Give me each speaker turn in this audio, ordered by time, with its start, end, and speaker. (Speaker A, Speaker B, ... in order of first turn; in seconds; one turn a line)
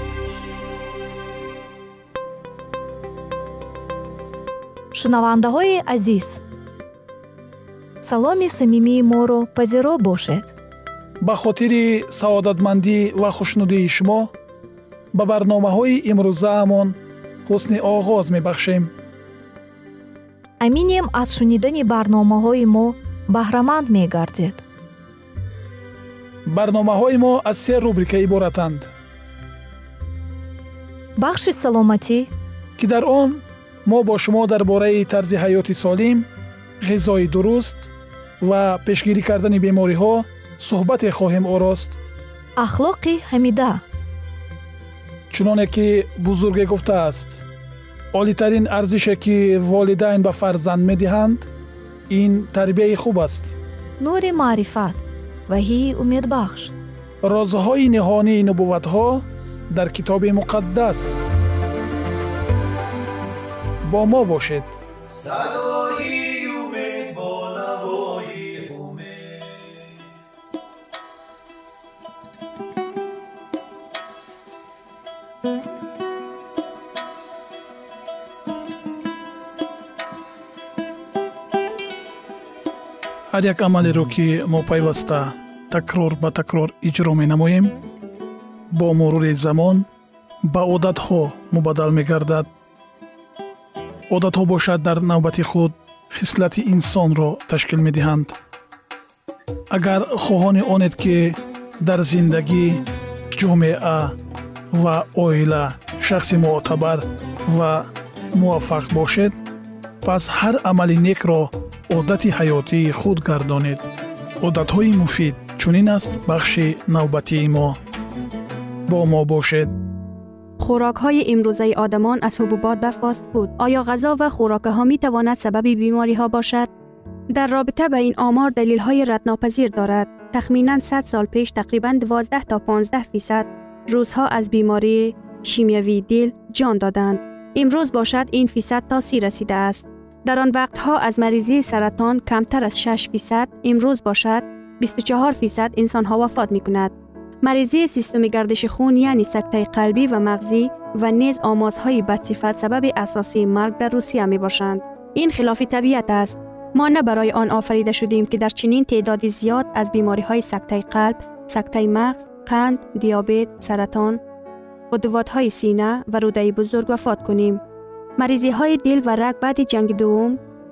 Speaker A: 4.9-6.4
Speaker A: 8.0-10.6
Speaker B: 11.2-14.3
Speaker B: 15.1-18.9
Speaker A: 20.6-24.6
Speaker B: 26.4-28.9
Speaker A: 31.2-32.3
Speaker B: 32.8-36.3
Speaker B: 36.8-42.0
Speaker A: 42.5-43.8
Speaker B: 45.3-47.4
Speaker B: 48.1-51.5
Speaker B: 52.1-53.5
Speaker A: 54.0-56.7
Speaker B: 57.2-61.2
Speaker B: 63.8-69.0
Speaker B: 83.3-87.7
Speaker B: 88.7-89.9
Speaker B: 90.4-92.5
Speaker B: 94.1-98.3
Speaker B: 99.7-104.2
Speaker B: 104.7-109.3
Speaker B: 110.0-113.8
Speaker B: 114.4-117.8
Speaker B: 118.9-119.7
Speaker C: 120.6-126.7
Speaker C: 127.3-146.9
Speaker C: 147.4-164.2
Speaker C: 164.9-167.6
Speaker C: 168.2-170.4